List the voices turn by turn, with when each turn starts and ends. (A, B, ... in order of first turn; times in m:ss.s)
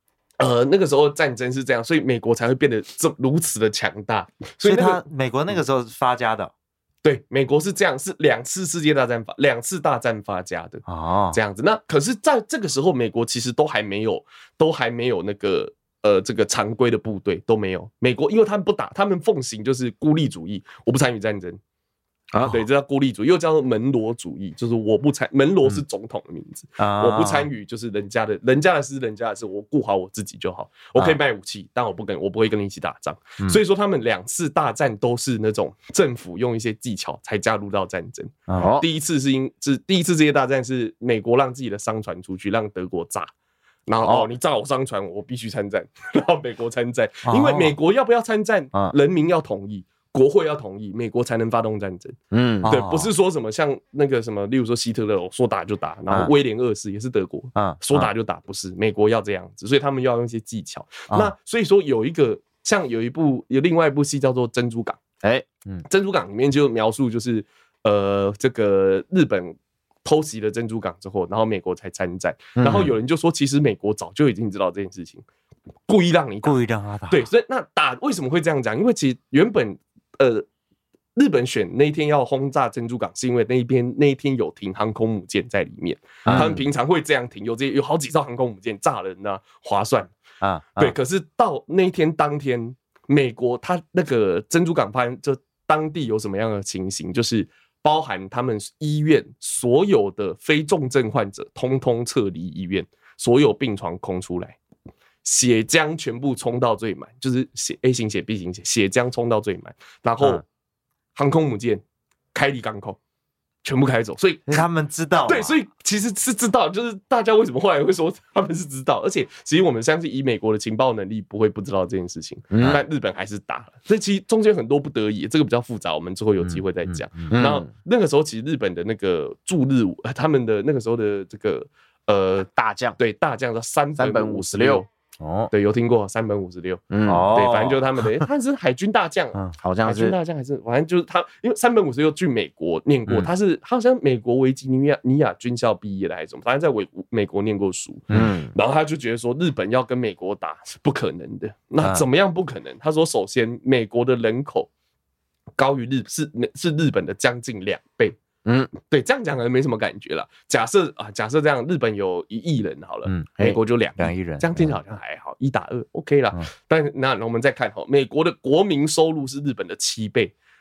0:00.4-0:05.0 A
0:04.6-0:06.5 B
0:07.0-0:21.6 A
0:10.9-0:11.4 B
0:22.4-0:43.3 A
0:26.8-0:27.5 B
0:38.6-0:38.8 C
0:43.9-1:05.0 A
0:47.2-0:47.7 B
0:52.3-0:52.7 C
0:52.6-0:53.1 B
0:57.6-0:58.1 B
1:05.9-1:15.2 A
1:12.6-1:12.9 C
1:15.9-1:20.4 A
1:16.4-1:17.2 B
1:21.2-1:30.1 A
1:26.2-1:26.6 B
1:30.4-1:30.9 B
1:30.8-1:44.6 A
1:45.2-1:50.4 A
1:51.2-1:51.8 A
1:52.3-1:53.0 A
1:53.6-1:54.6 A
1:54.5-1:55.6 B
1:55.2-2:14.9 A
2:02.5-2:02.8 C
2:06.4-2:07.4 B
2:07.3-2:07.7 C
2:12.5-2:13.0 C
2:14.0-2:14.8 C
2:15.2-2:15.5 B
2:15.5-2:34.7 A
2:16.9-2:17.3 C
2:17.1-2:18.2 B
2:19.6-2:20.1 C
2:28.1-2:28.5 C
2:31.8-2:32.0 B
2:35.6-2:38.2 A
2:38.4-2:38.7 C
2:38.7-2:50.3 A
2:44.0-2:44.8 B